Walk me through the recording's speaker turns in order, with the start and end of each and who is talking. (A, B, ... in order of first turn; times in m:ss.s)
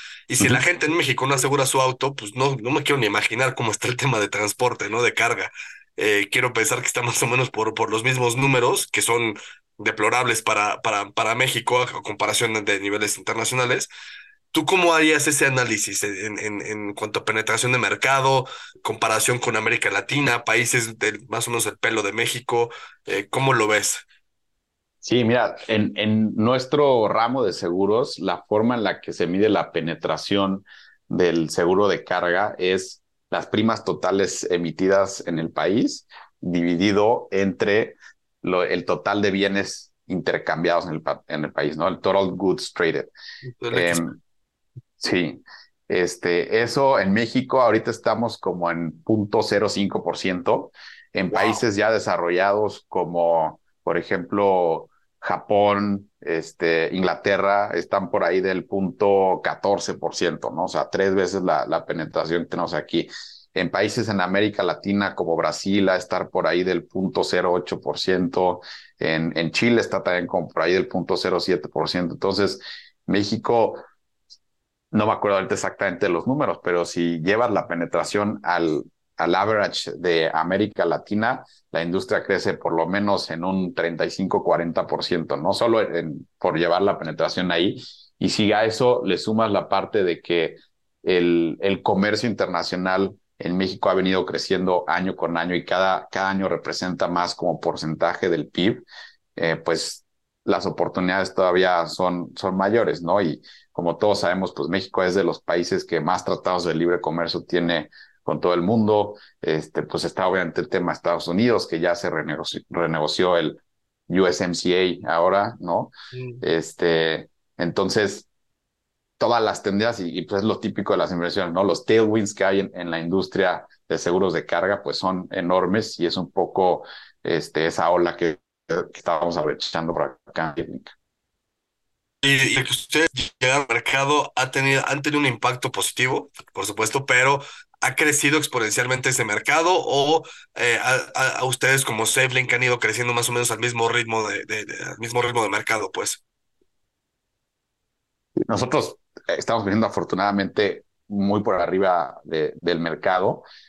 0:00.3-0:13.9 A
0:14.5-0:24.0 A
0:25.0-0:43.1 B
0:43.6-0:44.2 A
0:43.7-0:44.1 B
0:45.0-1:13.8 B
0:51.3-0:51.6 A
1:14.9-1:38.8 B
1:39.4-1:58.3 B
1:59.2-2:10.9 B
2:12.2-2:26.2 A
2:28.5-2:33.4 B